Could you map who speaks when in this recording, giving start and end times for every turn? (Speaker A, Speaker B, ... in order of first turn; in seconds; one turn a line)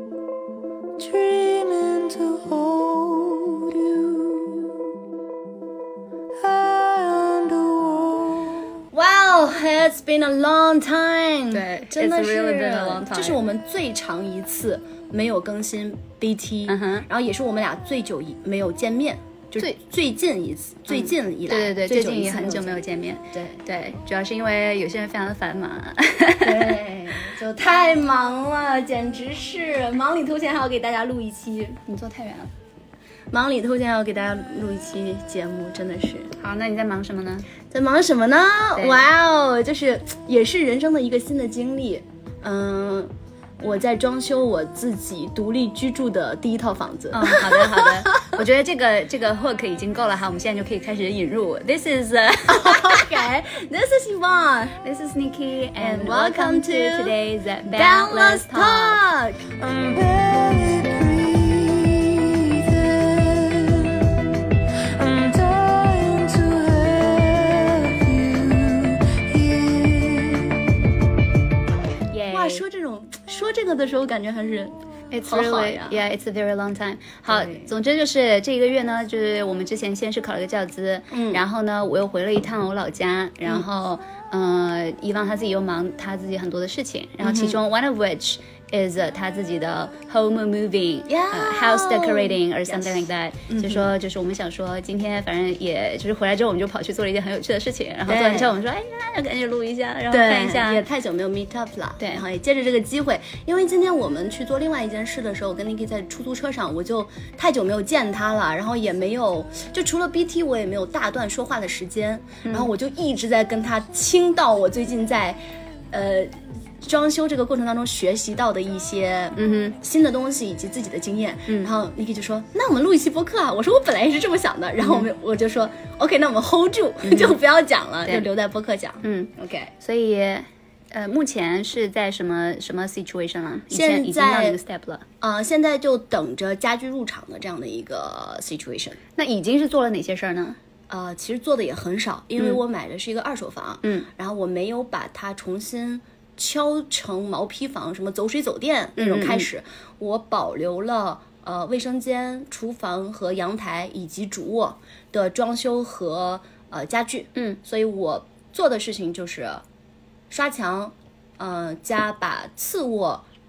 Speaker A: 1.0-4.8
Speaker A: 6.4-8.7
Speaker B: 8.9-22.8
Speaker C: 11.5-13.4
Speaker C: 16.7-17.1
Speaker C: 20.9-26.7
Speaker B: 23.3-23.6
Speaker B: 26.4-31.8
Speaker C: 31.9-32.5
Speaker B: 33.3-36.3
Speaker C: 36.4-37.5
Speaker B: 37.7-48.4
Speaker C: 38.8-39.0
Speaker C: 47.1-53.1
Speaker B: 52.5-54.8
Speaker C: 54.8-59.0
Speaker B: 55.8-59.5
Speaker A: 59.6-64.1
Speaker A: 64.8-70.7
Speaker C: 72.1-72.6
Speaker B: 72.3-76.0
Speaker C: 75.1-100.8
Speaker B: 77.3-77.7
Speaker B: 81.1-81.4
Speaker B: 87.2-87.6
Speaker B: 91.1-93.9
Speaker B: 98.1-98.5
Speaker B: 100.1-115.4
Speaker C: 102.0-102.2
Speaker C: 112.4-112.7
Speaker B: 115.9-129.7
Speaker C: 119.3-119.8
Speaker C: 127.0-127.3
Speaker C: 129.0-135.0
Speaker B: 133.7-134.6
Speaker B: 135.2-139.0
Speaker C: 139.2-140.6
Speaker B: 140.9-159.6
Speaker C: 143.8-144.1
Speaker C: 149.0-149.5
Speaker B: 160.3-163.2